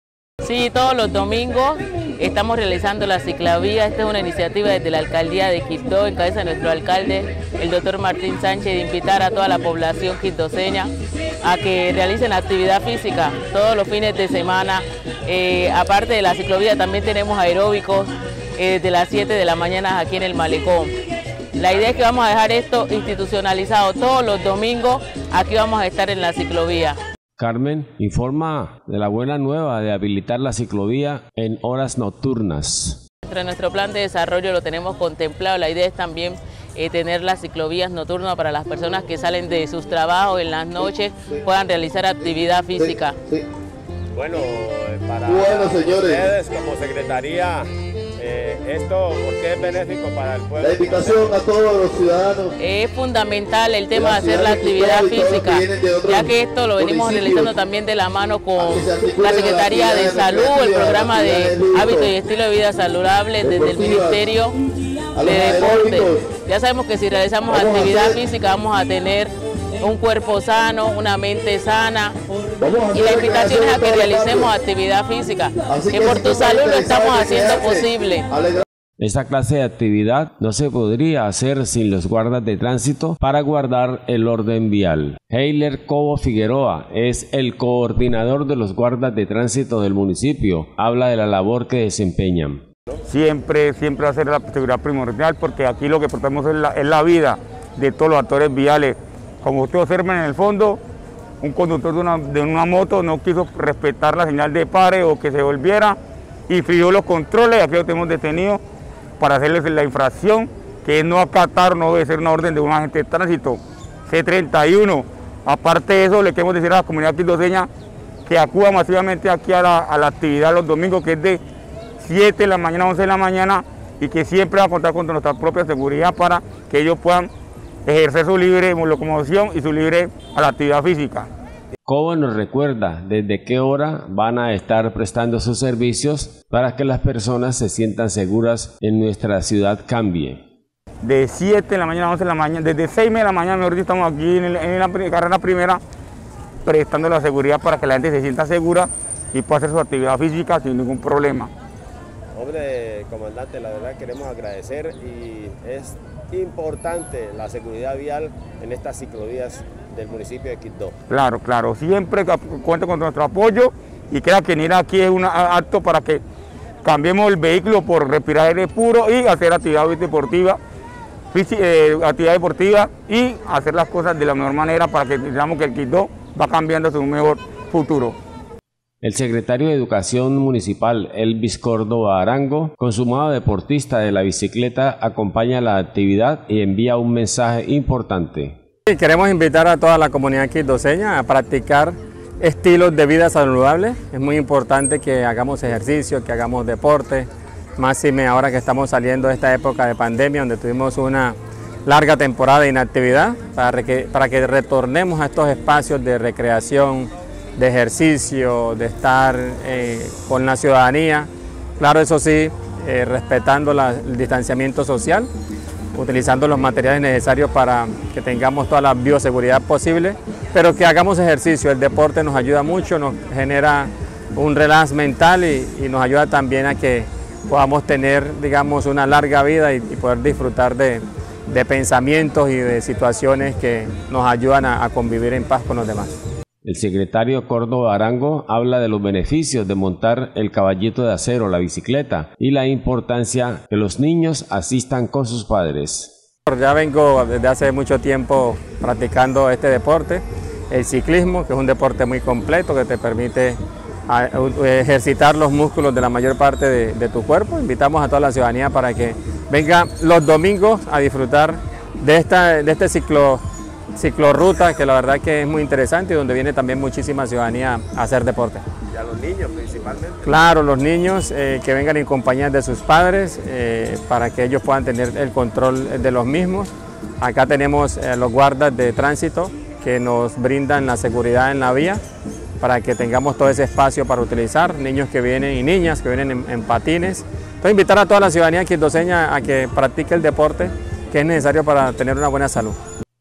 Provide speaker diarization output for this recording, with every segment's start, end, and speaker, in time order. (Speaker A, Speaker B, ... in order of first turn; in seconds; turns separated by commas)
Speaker A: 0.4-20.9, Speaker A: 21.6-27.0, Speaker B: 27.4-33.0, Speaker A: 33.3-43.2, Speaker C: 42.8-43.5, Speaker D: 44.1-51.4, Speaker C: 45.2-46.3, Speaker C: 50.6-52.5, Speaker A: 52.6-64.6, Speaker C: 53.9-57.5, Speaker C: 58.6-62.1, Speaker C: 63.4-64.2, Speaker C: 65.2-66.3, Speaker A: 65.2-72.2, Speaker C: 67.5-68.2, Speaker C: 72.6-74.5, Speaker A: 72.9-78.3, Speaker C: 75.7-78.6, Speaker B: 79.0-92.6, Speaker E: 93.1-100.8, Speaker E: 101.4-106.0, Speaker E: 106.5-108.6, Speaker E: 109.2-117.7, Speaker E: 118.3-121.4, Speaker E: 122.0-127.3, Speaker E: 127.9-131.3, Speaker B: 131.8-140.4, Speaker E: 141.0-145.8, Speaker E: 146.7-151.5, Speaker D: 152.3-160.9, Speaker E: 161.1-166.2, Speaker E: 166.8-170.6, Speaker E: 171.3-178.2, Speaker B: 179.0-188.6, Speaker F: 188.9-215.3, Speaker F: 215.9-236.2, Speaker B: 236.7-246.2, Speaker F: 246.5-253.6, Speaker F: 254.1-263.4, Speaker F: 263.9-268.6, Speaker D: 268.9-270.3, Speaker F: 270.3-282.0, Speaker F: 282.6-292.8